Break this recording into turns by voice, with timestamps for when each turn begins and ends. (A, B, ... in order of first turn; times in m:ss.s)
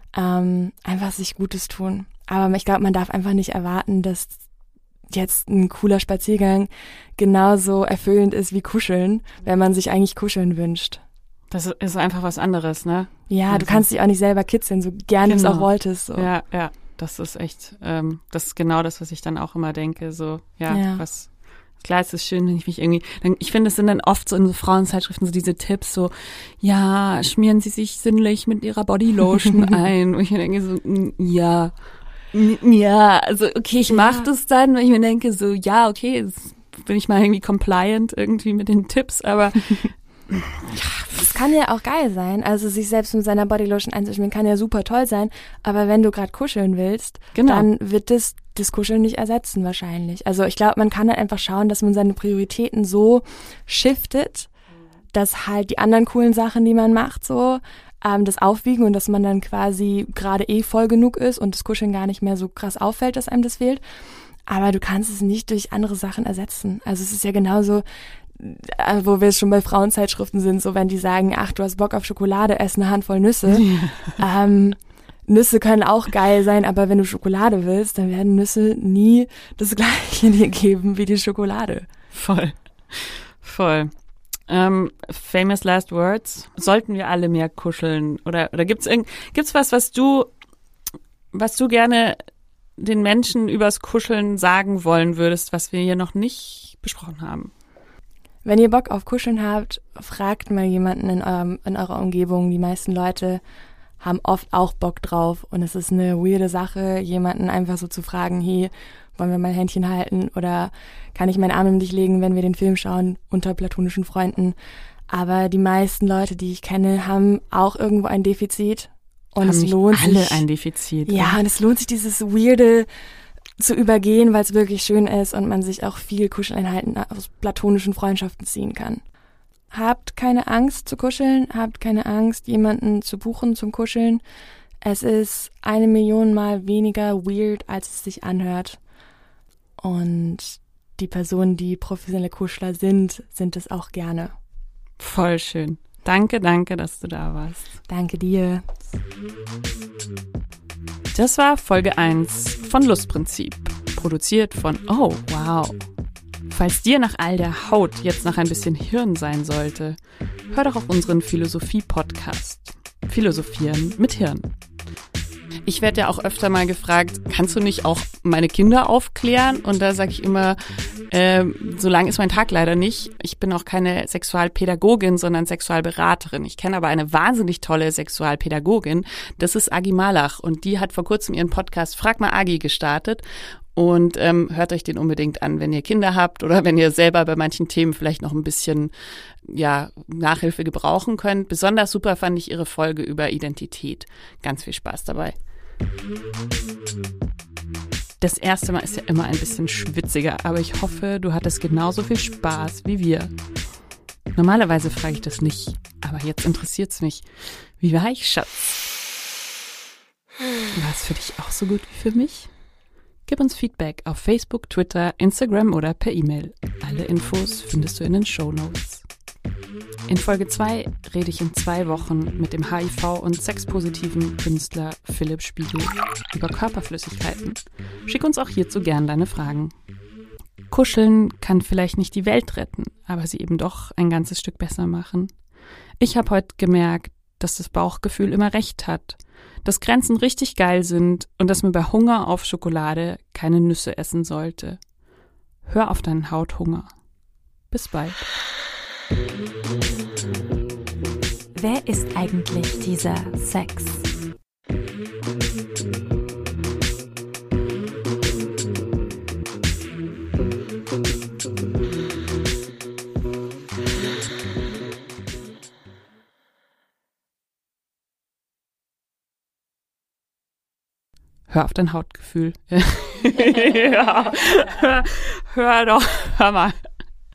0:00.1-0:04.4 A
0:05.1-0:11.0 A
0:11.5-0:13.8 B
0:13.3-0:16.3 A
0:15.3-0:31.7 B
0:20.7-0:21.0 A
0:32.3-0:41.4 B
0:33.9-0:34.3 A
0:41.2-0:54.5 A
0:47.3-0:47.7 B
0:55.1-1:03.8 A
1:04.5-1:21.9 A
1:13.5-1:14.2 B
1:22.1-1:23.9 B
1:24.5-1:30.3 B
1:31.3-1:32.2 B
1:32.8-1:37.5 B
1:38.4-1:43.4 A
1:44.0-1:54.6 A
1:55.1-2:00.4 A
1:59.4-2:01.4 B
2:01.1-2:02.9 A
2:03.6-2:09.0 A
2:09.7-2:14.2 A
2:14.8-2:18.8 A
2:19.8-2:24.3 A
2:25.0-2:27.7 B
2:27.9-2:28.7 A
2:31.1-2:35.8 B
2:36.5-2:40.0 B
2:40.5-2:44.5 B
2:45.7-2:50.6 B
2:51.1-3:03.2 B
3:03.8-3:08.9 B
3:09.4-3:15.4 B
3:18.2-3:23.3 B
3:24.4-3:27.3 B
3:27.8-3:28.8 B
3:30.7-3:32.5 B
3:33.3-3:39.1 B
3:40.1-3:49.7 B
3:50.7-3:55.3 B
3:56.0-4:04.8 B
4:05.6-4:06.9 B
4:07.7-4:08.3 B
4:11.6-4:14.1 C
4:31.5-4:36.8 B